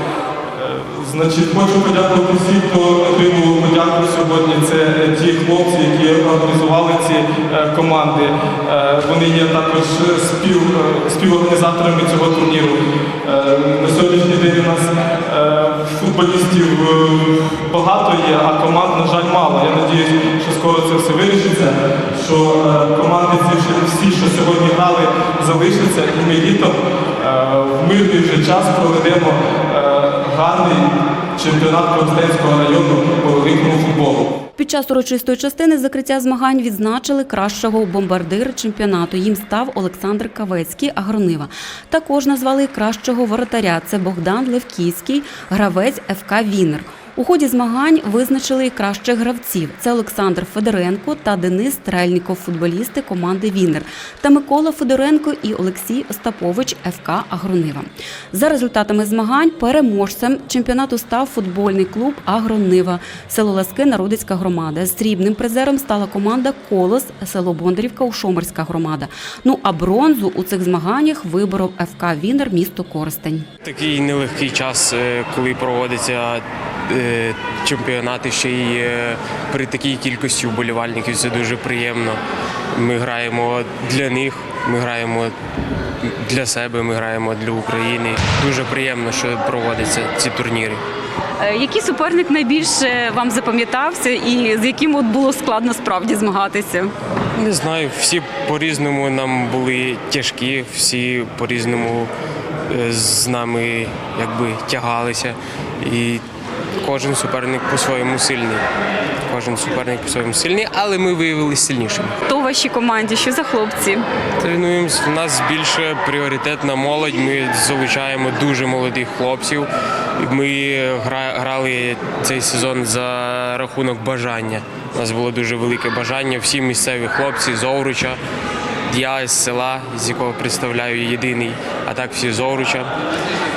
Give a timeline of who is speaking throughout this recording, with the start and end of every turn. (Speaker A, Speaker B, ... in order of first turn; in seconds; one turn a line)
Speaker A: 0.5-34.3
Speaker B: 34.6-73.5
Speaker C: 73.6-82.2
Speaker C: 82.7-85.3
Speaker C: 86.0-90.8
Speaker B: 91.4-96.9
Speaker C: 97.3-102.1
Speaker C: 102.7-106.2
Speaker C: 106.8-108.6
Speaker C: 109.3-112.2
Speaker B: 112.3-114.0
Speaker C: 114.4-128.2
Speaker C: 128.9-132.9